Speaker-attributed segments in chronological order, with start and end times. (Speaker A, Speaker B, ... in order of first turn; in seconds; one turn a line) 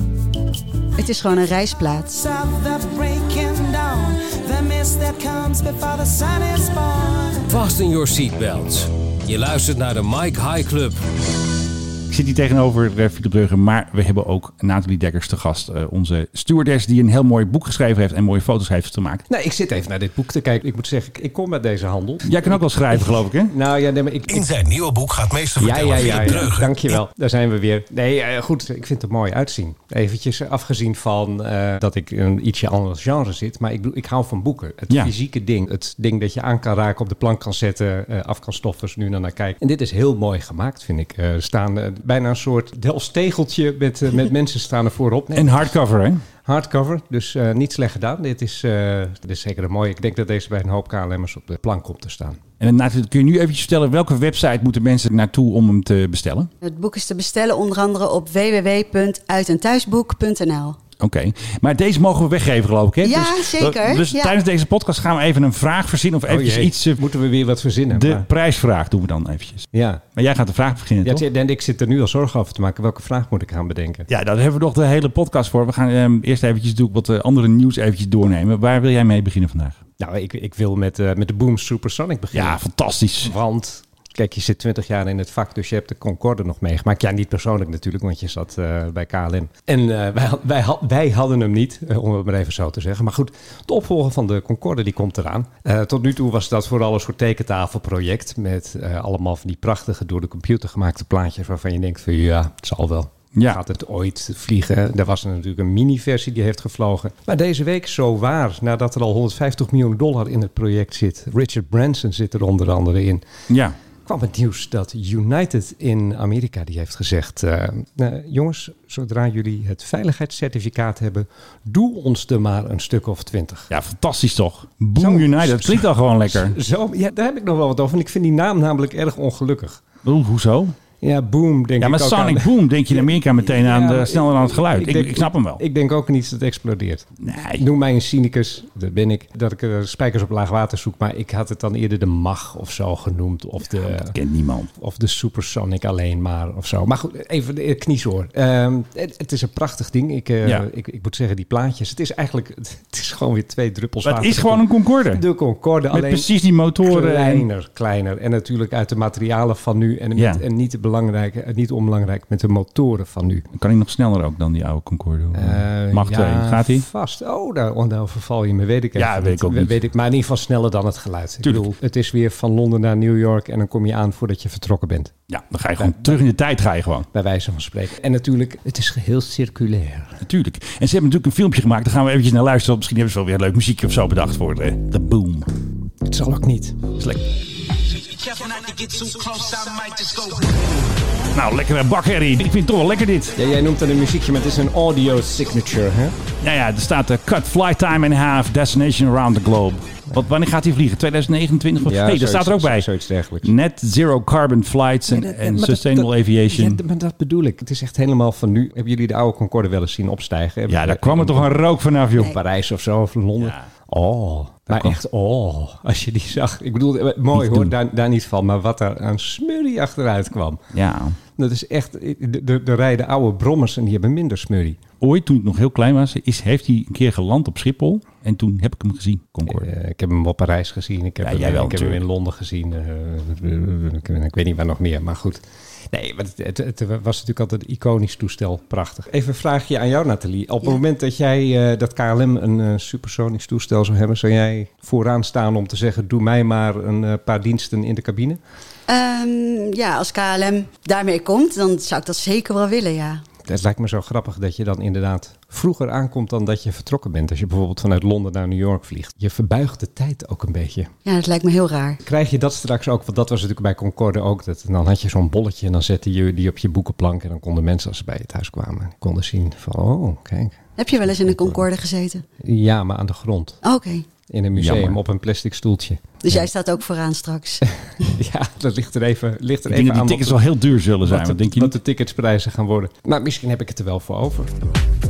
Speaker A: 1.0-2.2
Speaker B: 2.2-7.5
Speaker C: 7.5-11.0
Speaker D: 12.1-19.2
Speaker E: 19.3-24.5
Speaker D: 22.2-23.5
Speaker C: 24.3-26.9
Speaker E: 25.6-45.7
Speaker D: 45.4-46.2
Speaker E: 46.5-52.4
Speaker D: 52.6-56.5
Speaker A: 56.6-60.8
Speaker D: 61.0-67.0
Speaker A: 63.0-64.3
Speaker E: 66.3-68.3
Speaker D: 67.9-69.7
Speaker E: 69.7-70.0
Speaker D: 70.2-71.2
Speaker E: 71.0-74.1
Speaker D: 74.1-79.8
Speaker E: 80.0-82.6
Speaker D: 82.3-83.3
Speaker E: 83.2-113.2
Speaker D: 113.5-113.8
Speaker E: 114.1-123.7
Speaker D: 123.7-126.6
Speaker E: 125.0-129.8
Speaker D: 130.1-130.8
Speaker E: 131.0-137.1
Speaker D: 131.8-135.6
Speaker D: 137.2-137.7
Speaker E: 137.6-144.2
Speaker D: 143.8-144.7
Speaker E: 144.8-156.3
Speaker D: 154.0-155.2
Speaker D: 155.9-157.5
Speaker E: 156.8-163.5
Speaker D: 160.2-160.4
Speaker D: 163.6-166.9
Speaker E: 165.3-175.1
Speaker D: 169.0-169.8
Speaker D: 175.3-177.1
Speaker E: 175.8-176.2
Speaker E: 177.1-180.2
Speaker D: 180.2-185.5
Speaker E: 186.1-186.8
Speaker D: 188.2-190.6
Speaker D: 191.3-193.4
Speaker E: 193.4-196.2
Speaker D: 196.4-202.9
Speaker E: 201.8-203.5
Speaker D: 203.4-206.8
Speaker E: 205.1-220.6
Speaker D: 210.7-212.4
Speaker D: 213.4-213.7
Speaker D: 217.3-217.7
Speaker D: 220.7-221.2
Speaker E: 221.4-224.8
Speaker D: 225.0-229.7
Speaker E: 229.5-248.4
Speaker D: 231.2-232.0
Speaker A: 248.9-253.2
Speaker E: 253.4-260.9
Speaker A: 261.1-262.0
Speaker E: 262.0-271.6
Speaker A: 270.8-272.2
Speaker E: 272.4-273.6
Speaker A: 273.6-274.1
Speaker E: 274.3-276.5
Speaker D: 274.6-275.0
Speaker A: 276.2-277.7
Speaker E: 278.0-280.5
Speaker D: 279.7-281.7
Speaker E: 281.1-284.5